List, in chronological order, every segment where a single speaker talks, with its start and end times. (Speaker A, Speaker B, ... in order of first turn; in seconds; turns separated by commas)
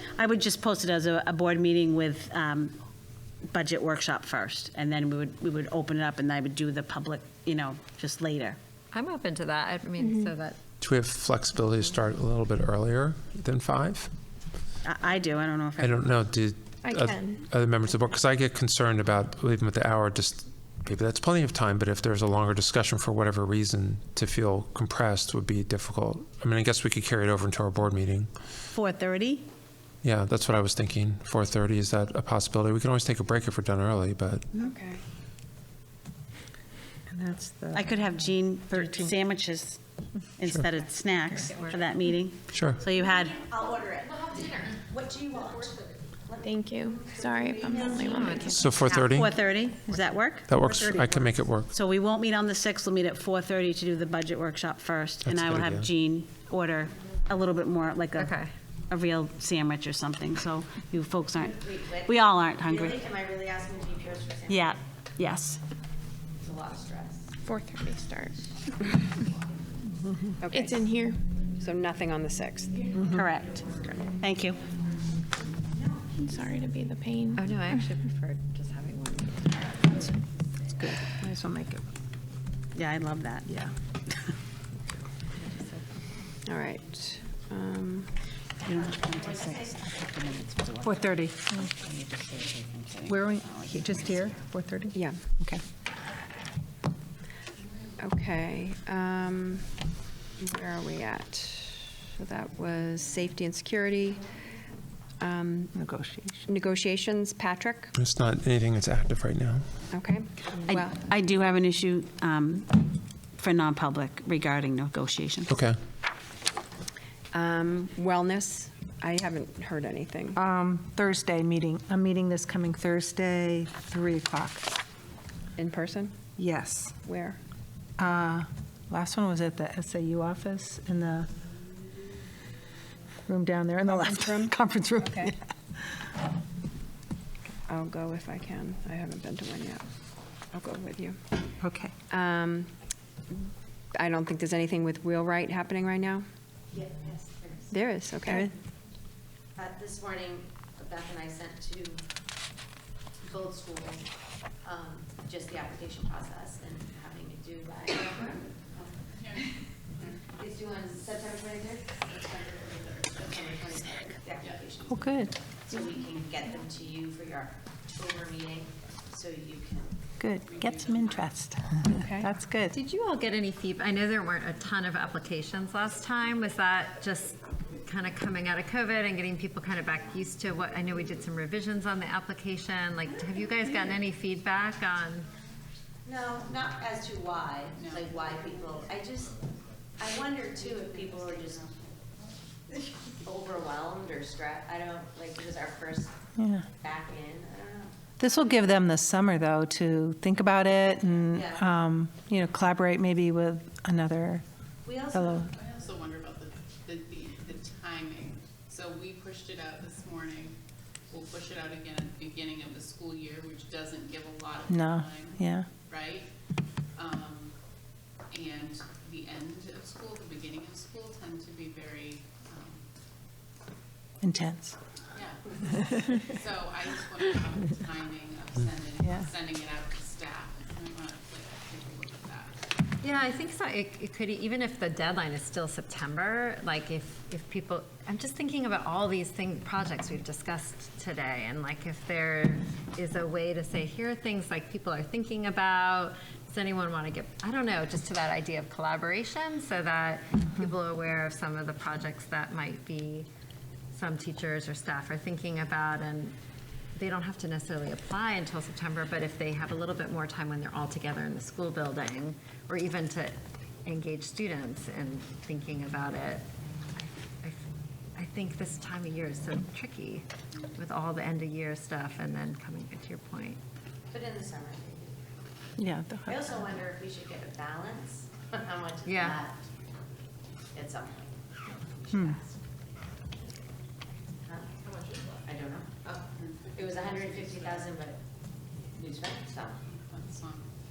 Speaker A: 0.1-2.7, Speaker A: 3.5-8.6, Speaker B: 8.9-10.6, Speaker C: 10.0-10.3, Speaker D: 10.8-14.1, Speaker A: 14.8-16.2, Speaker D: 15.8-28.3, Speaker C: 16.8-17.4, Speaker A: 28.7-29.5, Speaker D: 30.0-34.5, Speaker E: 34.5-35.0, Speaker F: 37.1-39.2, Speaker A: 37.7-39.8, Speaker A: 40.4-43.4, Speaker B: 41.3-41.8, Speaker D: 42.5-42.8, Speaker G: 43.2-44.3, Speaker G: 44.8-45.7, Speaker G: 46.3-47.1, Speaker C: 46.4-48.7, Speaker B: 48.0-49.3, Speaker D: 48.5-49.3, Speaker A: 49.1-58.3, Speaker D: 50.4-51.7, Speaker D: 55.2-55.9, Speaker B: 58.1-58.5, Speaker A: 58.9-63.0, Speaker G: 61.6-62.1, Speaker G: 62.6-64.8, Speaker A: 64.5-65.6, Speaker G: 66.4-67.3, Speaker C: 67.4-68.3, Speaker E: 70.4-70.9, Speaker C: 70.5-71.2, Speaker E: 71.5-72.9, Speaker A: 73.1-74.6, Speaker C: 76.2-77.4, Speaker B: 77.3-80.2, Speaker F: 80.8-81.8, Speaker A: 82.7-83.5, Speaker F: 83.5-83.7, Speaker B: 85.4-85.8, Speaker E: 86.4-88.1, Speaker F: 88.7-89.6, Speaker A: 88.7-91.0, Speaker F: 90.8-91.7, Speaker A: 91.5-93.9, Speaker F: 93.0-95.6, Speaker E: 94.9-95.2, Speaker E: 98.0-99.7, Speaker E: 100.4-104.2, Speaker E: 105.2-105.7, Speaker F: 105.7-106.4, Speaker E: 106.5-107.9, Speaker D: 108.0-109.7, Speaker E: 109.9-111.0, Speaker A: 110.6-112.8, Speaker A: 113.4-115.6, Speaker D: 115.5-115.8, Speaker E: 117.3-120.4, Speaker F: 120.3-124.8, Speaker E: 125.6-126.2, Speaker F: 126.4-127.0, Speaker E: 127.0-127.4, Speaker F: 128.0-131.3, Speaker F: 133.3-135.4, Speaker E: 133.9-135.3, Speaker E: 137.7-139.8, Speaker E: 140.5-141.2, Speaker F: 141.6-141.9, Speaker E: 142.1-142.7, Speaker E: 143.9-146.2, Speaker G: 146.8-147.6, Speaker E: 147.7-148.5, Speaker F: 148.2-148.5, Speaker G: 149.6-152.0, Speaker G: 153.2-154.0, Speaker G: 154.6-158.4, Speaker H: 159.2-159.5, Speaker G: 160.4-162.5, Speaker H: 162.7-163.6, Speaker G: 163.3-164.9, Speaker H: 164.3-164.8, Speaker F: 164.9-165.3, Speaker G: 165.6-169.9, Speaker F: 170.2-172.8, Speaker H: 170.4-171.4, Speaker E: 171.8-172.3, Speaker B: 172.7-185.3, Speaker G: 186.1-189.3, Speaker H: 187.8-188.1, Speaker G: 190.0-191.6, Speaker G: 193.2-196.1, Speaker F: 196.3-196.7, Speaker G: 196.8-197.9, Speaker F: 198.2-204.4, Speaker G: 201.3-201.6, Speaker G: 204.8-205.5, Speaker F: 205.1-205.5, Speaker H: 205.5-210.6, Speaker H: 211.1-216.3, Speaker F: 214.7-215.7, Speaker H: 216.9-217.5, Speaker H: 218.3-222.8, Speaker F: 224.2-224.8, Speaker H: 225.1-232.6, Speaker F: 229.0-229.3, Speaker B: 233.0-253.3, Speaker B: 253.9-256.4, Speaker B: 256.9-266.4, Speaker B: 266.9-267.6, Speaker B: 268.2-273.6, Speaker G: 274.1-275.1, Speaker F: 275.8-276.6, Speaker G: 276.3-279.5, Speaker B: 279.1-279.5, Speaker G: 280.7-282.5, Speaker F: 282.1-282.4, Speaker G: 285.5-286.0, Speaker H: 286.4-288.0, Speaker G: 286.8-288.1, Speaker G: 289.0-289.7, Speaker H: 289.9-290.6